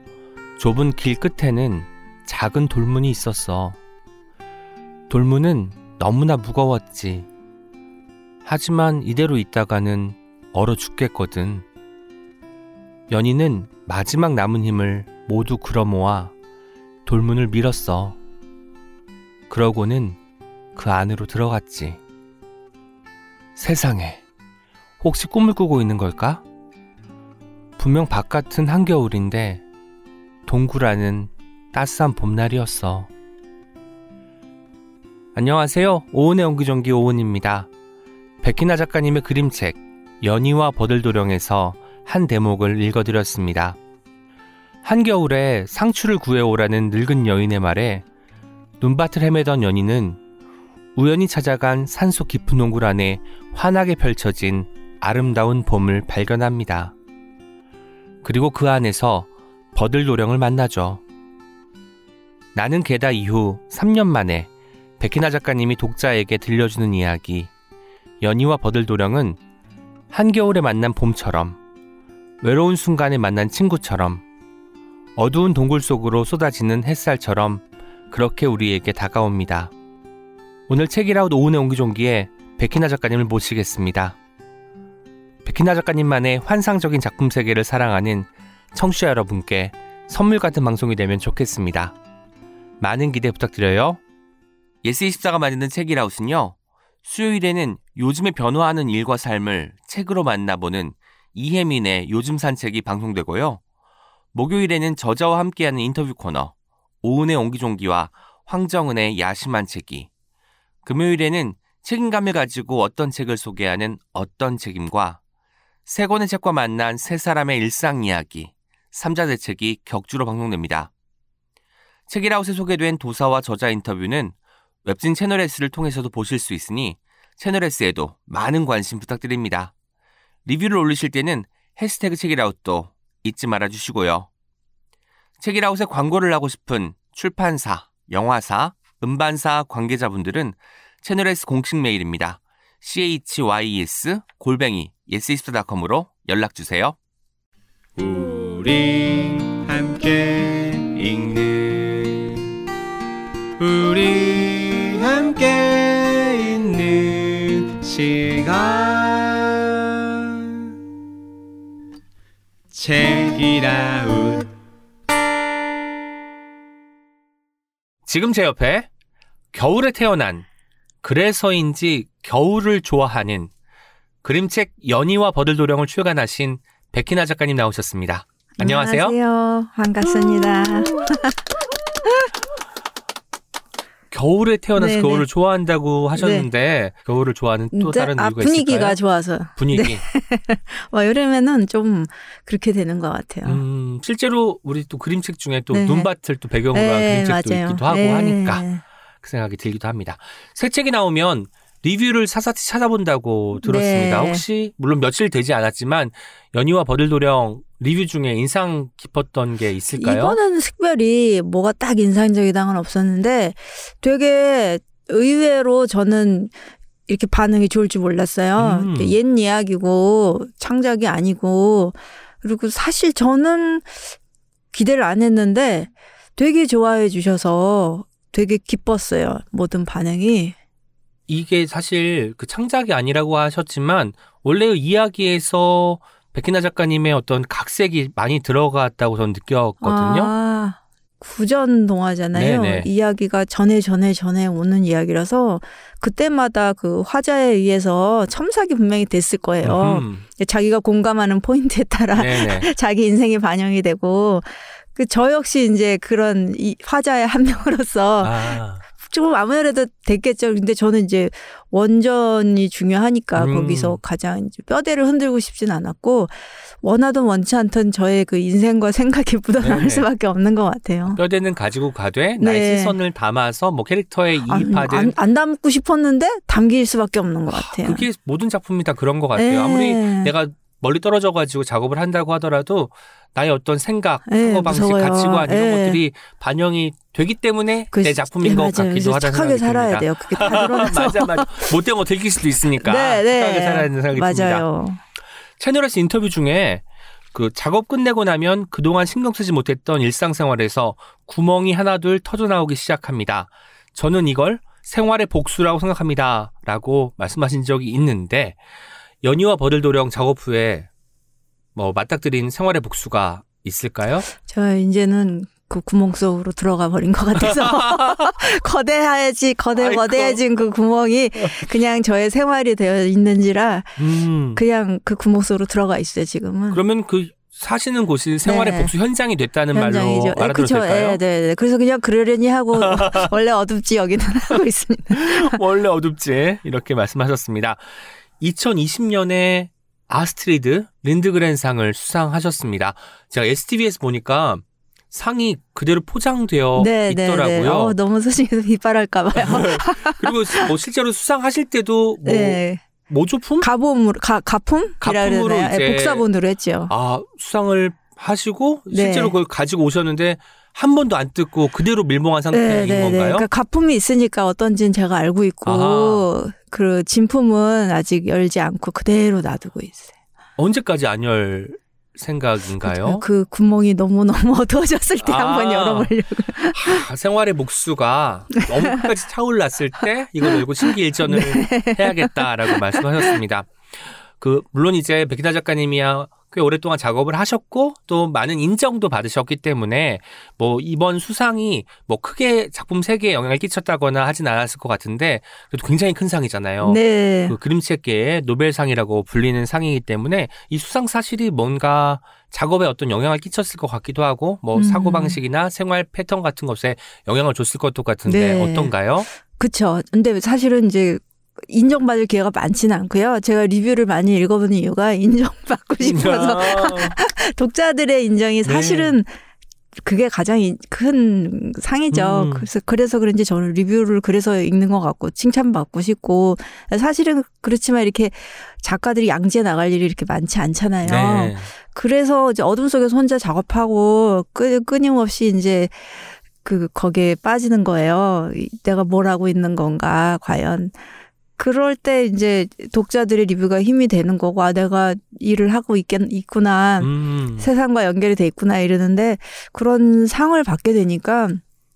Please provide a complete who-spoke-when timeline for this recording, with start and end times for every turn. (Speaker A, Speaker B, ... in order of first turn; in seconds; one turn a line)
Speaker A: 0.6-3.8
Speaker A: 5.1-7.3
Speaker A: 8.4-11.7
Speaker A: 13.1-16.3
Speaker A: 17.1-18.2
Speaker A: 19.5-20.2
Speaker A: 20.7-22.0
Speaker A: 23.6-24.2
Speaker A: 25.0-26.4
Speaker A: 27.8-29.6
Speaker A: 30.5-33.1
Speaker A: 35.3-37.7
Speaker A: 38.4-43.8
Speaker A: 44.8-48.0
Speaker A: 48.8-50.2
Speaker A: 51.0-56.9
Speaker A: 58.2-61.0
Speaker A: 62.5-67.5
Speaker A: 68.2-69.4
Speaker A: 70.1-71.6
Speaker A: 72.4-74.2
Speaker A: 75.2-79.7
Speaker A: 80.7-84.2
Speaker A: 85.4-91.9
Speaker A: 92.8-94.0
Speaker A: 94.8-103.6
Speaker A: 104.3-110.1
Speaker A: 110.8-115.2
Speaker A: 115.8-120.9
Speaker A: 122.1-129.7
Speaker A: 130.4-134.3
Speaker A: 135.4-147.0
Speaker B: 148.0-152.4
Speaker B: 153.6-159.6
Speaker B: 162.7-164.5
Speaker A: 168.1-168.9
Speaker A: 169.5-170.4
Speaker A: 171.0-173.5
Speaker A: 174.2-179.2
Speaker C: 178.6-181.4
Speaker A: 180.0-180.9
Speaker A: 184.1-189.0
Speaker C: 184.8-185.3
Speaker C: 186.2-186.5
Speaker C: 187.7-193.6
Speaker A: 189.6-190.0
Speaker A: 193.4-198.6
Speaker C: 195.7-196.1
Speaker C: 196.7-198.8
Speaker A: 199.2-210.3
Speaker C: 203.6-204.4
Speaker C: 210.0-216.5
Speaker C: 217.1-224.2
Speaker A: 218.6-219.1
Speaker C: 224.7-230.5
Speaker A: 231.3-240.3
Speaker C: 239.8-271.2
Speaker A: 242.3-242.9
Speaker A: 249.6-250.2
Speaker A: 252.1-252.7
Speaker A: 258.2-258.8
Speaker A: 263.3-264.0
Speaker A: 269.6-270.1
Speaker A: 271.1-275.1
Speaker C: 272.4-272.9
Speaker C: 274.4-278.1
Speaker A: 277.5-294.6
Speaker C: 279.3-280.3
Speaker C: 284.3-286.0
Speaker C: 287.9-291.7
Speaker C: 292.8-295.0
Speaker A: 295.6-308.6
Speaker A: 309.2-310.9
Speaker A: 311.7-314.3
Speaker C: 314.4-326.8
Speaker A: 317.4-318.4
Speaker A: 319.8-320.4
Speaker A: 324.0-324.6
Speaker A: 326.7-331.2
Speaker C: 328.4-328.9
Speaker C: 329.7-335.6
Speaker A: 332.7-333.3
Speaker A: 335.1-347.9
Speaker C: 346.8-350.7
Speaker A: 349.3-353.7
Speaker C: 352.2-352.8
Speaker C: 353.6-356.9
Speaker A: 355.0-356.2
Speaker A: 356.9-363.5
Speaker C: 358.9-359.4
Speaker C: 362.5-370.1
Speaker A: 365.6-366.3
Speaker A: 370.6-373.2
Speaker C: 372.8-377.0
Speaker A: 375.2-376.1
Speaker A: 376.7-409.3
Speaker C: 381.3-383.3
Speaker C: 396.8-397.6
Speaker C: 404.7-405.4
Speaker C: 408.2-419.4
Speaker A: 416.0-417.2
Speaker A: 418.6-419.1
Speaker C: 420.0-441.0
Speaker A: 422.1-422.7
Speaker A: 431.0-431.7
Speaker C: 441.6-451.6
Speaker A: 447.0-447.7